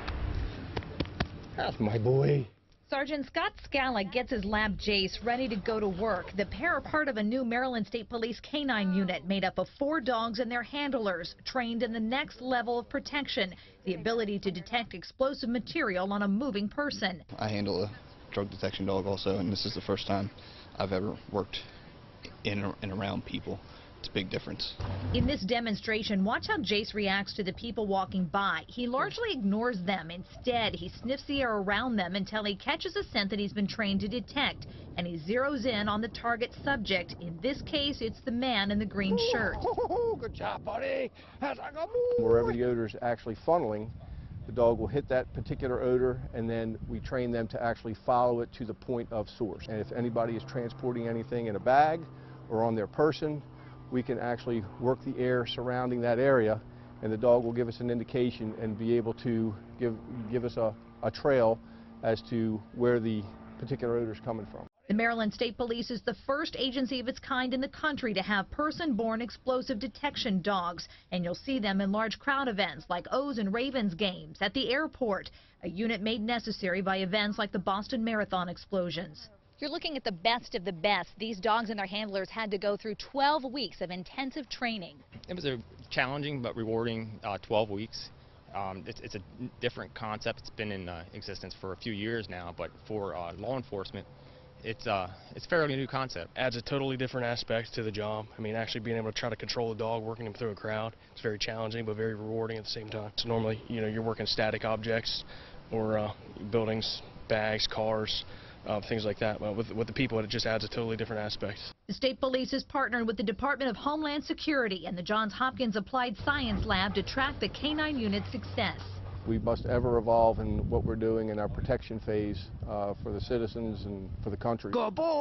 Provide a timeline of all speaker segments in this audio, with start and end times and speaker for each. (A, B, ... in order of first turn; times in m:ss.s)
0:01.6-0:02.4 A
0:02.9-0:17.2 B
0:17.3-0:21.7 C
0:22.4-0:24.8 C
0:25.1-0:39.6 B
0:42.2-0:43.9 A
0:44.4-1:04.7 A
1:04.9-1:25.0 B
1:25.3-1:34.1 D
1:34.6-1:36.3 D
1:36.3-1:51.7 E
1:51.9-1:59.0 B
1:59.2-2:05.0 A